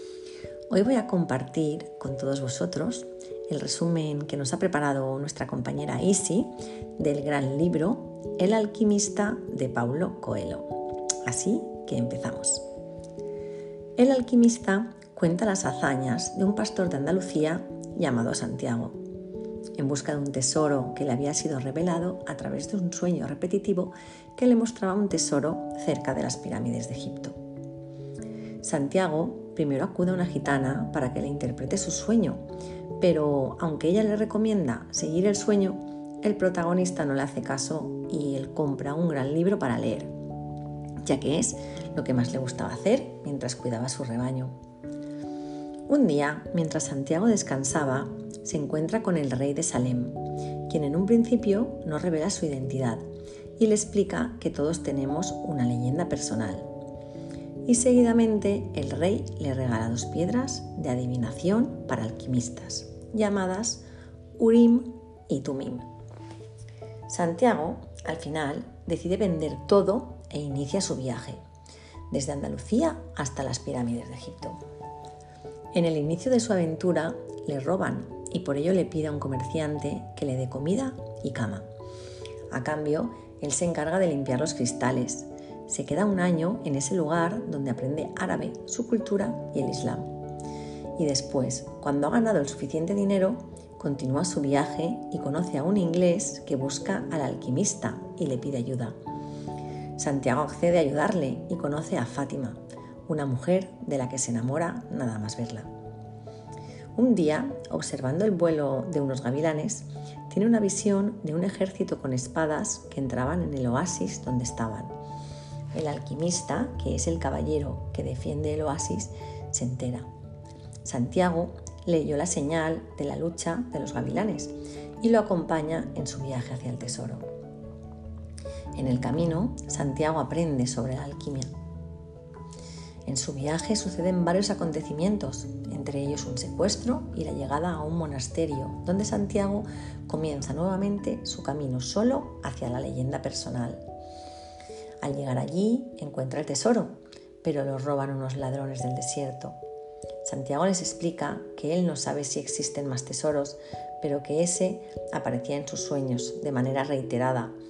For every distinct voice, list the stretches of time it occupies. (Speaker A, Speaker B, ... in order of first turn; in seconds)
Speaker A: 0.7-10.7, 11.2-12.6, 14.0-18.9, 19.8-27.3, 28.6-32.4, 33.0-40.1, 41.0-44.5, 45.9-53.0, 53.6-56.7, 57.6-63.8, 64.4-65.9, 67.1-71.4, 72.1-74.6, 75.7-81.7, 82.5-90.1, 91.0-99.0, 100.0-105.7, 107.0-114.9, 115.7-120.1, 120.8-127.3, 128.8-131.5, 133.1-143.8, 145.0-149.6, 150.2-157.5